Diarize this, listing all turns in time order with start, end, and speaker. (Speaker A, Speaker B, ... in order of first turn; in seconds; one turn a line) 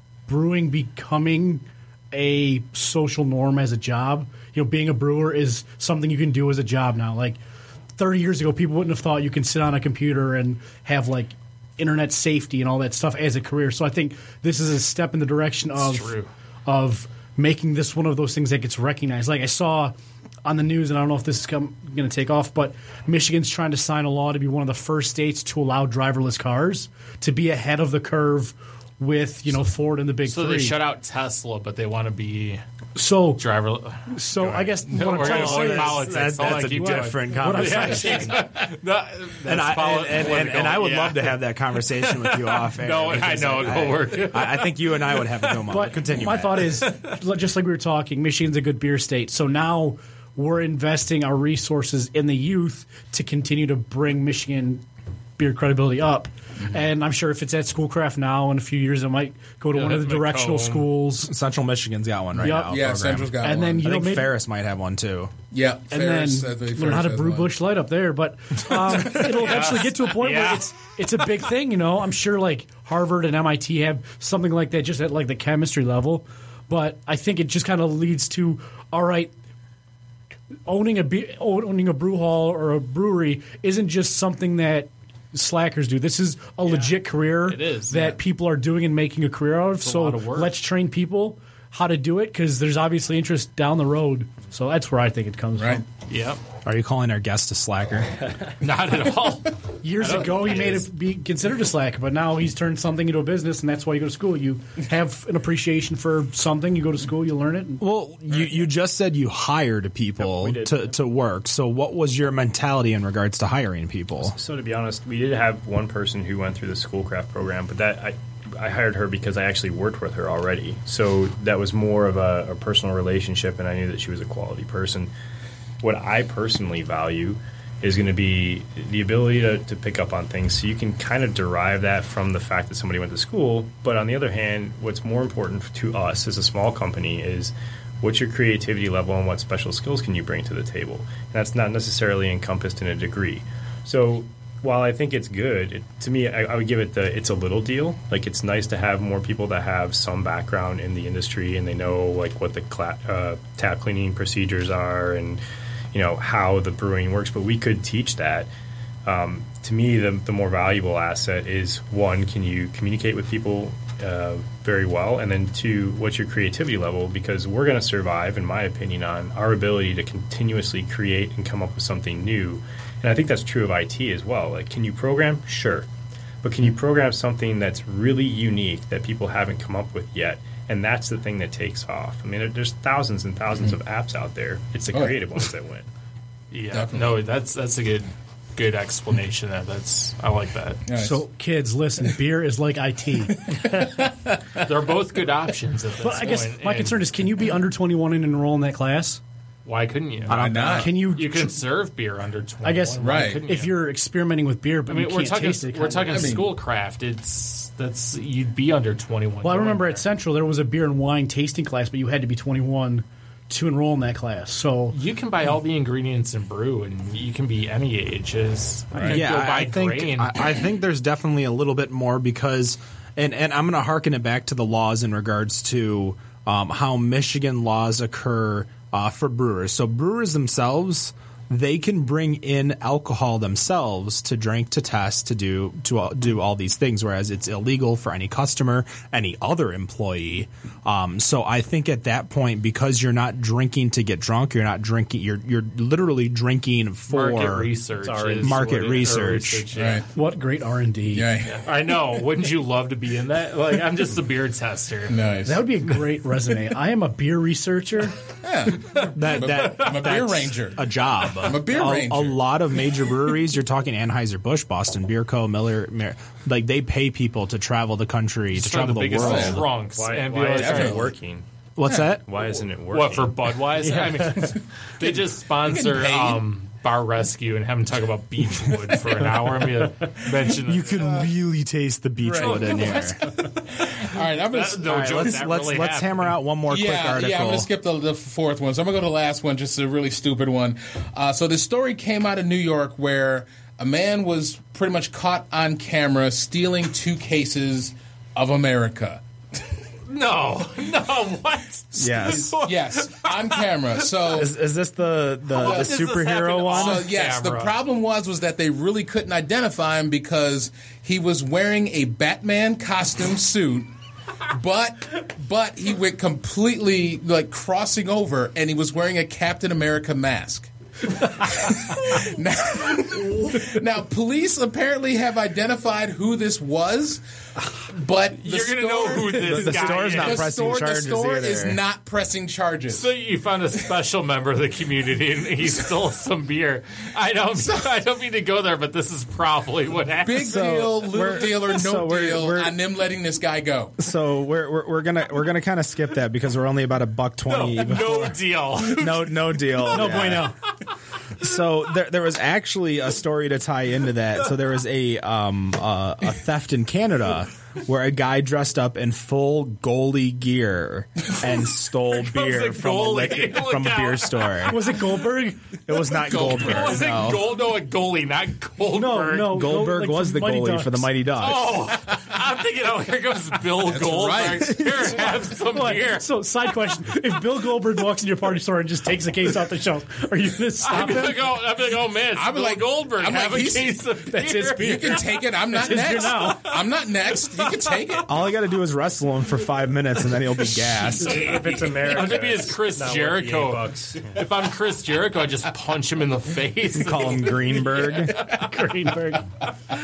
Speaker A: 0.3-7.4
Speaker A: 8.0-19.9
Speaker B: 15.8-16.3
Speaker A: 20.4-30.8
Speaker B: 30.2-32.6
Speaker A: 33.0-33.4
Speaker B: 33.4-45.6
Speaker A: 34.1-38.5
Speaker C: 35.2-38.4
Speaker C: 39.4-46.8
Speaker A: 45.7-54.8
Speaker A: 55.4-61.3
Speaker B: 59.7-60.9
Speaker C: 61.2-65.3
Speaker A: 62.4-64.3
Speaker D: 62.4-63.9
Speaker D: 65.5-67.5
Speaker A: 65.9-79.3
Speaker B: 68.9-70.8
Speaker A: 80.7-95.8
Speaker B: 86.7-88.2
Speaker B: 89.8-90.6
Speaker D: 95.6-95.8
Speaker B: 96.1-96.4
Speaker C: 96.6-98.2
Speaker B: 98.6-100.8
Speaker A: 99.8-107.8
Speaker C: 107.8-114.3
Speaker E: 110.2-110.9
Speaker E: 114.2-125.1
Speaker E: 125.8-155.4
Speaker E: 155.9-158.5
Speaker E: 159.1-175.8
Speaker E: 176.4-185.9
Speaker D: 184.9-185.2
Speaker B: 186.5-190.9
Speaker D: 186.7-187.2
Speaker D: 190.9-191.2
Speaker A: 190.9-193.5
Speaker D: 193.5-194.3
Speaker B: 194.6-197.0
Speaker A: 196.0-199.2
Speaker B: 199.6-203.8
Speaker C: 200.3-200.9
Speaker D: 200.3-201.0
Speaker A: 200.7-201.6
Speaker A: 202.6-206.3
Speaker D: 203.0-203.4
Speaker B: 204.9-210.0
Speaker D: 206.1-206.5
Speaker A: 209.4-215.0
Speaker B: 214.9-220.4
Speaker C: 219.1-247.7
Speaker B: 247.1-250.1
Speaker E: 248.0-249.3
Speaker C: 248.4-249.7
Speaker D: 249.7-250.1
Speaker A: 250.1-251.3
Speaker D: 251.1-251.7
Speaker B: 251.4-255.2
Speaker D: 255.1-255.7
Speaker A: 255.4-258.2
Speaker D: 258.4-262.4
Speaker C: 259.1-269.6
Speaker B: 268.5-271.1
Speaker D: 269.1-269.6
Speaker E: 269.9-271.4
Speaker D: 270.5-271.0
Speaker C: 271.8-272.2
Speaker E: 272.2-273.5
Speaker B: 272.9-281.2
Speaker D: 275.0-276.4
Speaker C: 280.6-283.2
Speaker D: 282.2-282.9
Speaker B: 282.3-286.4
Speaker D: 283.5-285.4
Speaker C: 284.8-287.7
Speaker D: 286.7-299.2
Speaker B: 300.1-304.3
Speaker C: 302.0-302.6
Speaker D: 302.3-304.5
Speaker C: 304.3-307.1
Speaker B: 305.5-307.7
Speaker D: 305.6-305.9
Speaker D: 306.7-313.9
Speaker D: 314.5-327.2
Speaker D: 327.9-333.1
Speaker B: 328.4-330.7
Speaker C: 329.4-331.8
Speaker B: 332.9-340.7
Speaker D: 340.2-344.0
Speaker C: 340.4-342.7
Speaker C: 344.0-350.5
Speaker B: 347.4-350.3
Speaker A: 349.9-350.5
Speaker C: 351.4-364.9
Speaker B: 362.1-364.9
Speaker A: 364.7-365.8
Speaker C: 365.9-367.5
Speaker B: 366.2-369.6
Speaker A: 368.9-371.1
Speaker C: 369.5-371.7
Speaker B: 371.4-376.3
Speaker D: 373.8-374.9
Speaker A: 375.7-381.5
Speaker B: 380.8-385.4
Speaker D: 382.3-384.1
Speaker A: 384.3-386.7
Speaker D: 384.8-388.3
Speaker B: 387.4-388.2
Speaker C: 388.2-391.5
Speaker E: 391.1-394.4
Speaker B: 391.2-398.6
Speaker C: 396.9-398.4
Speaker A: 398.4-399.5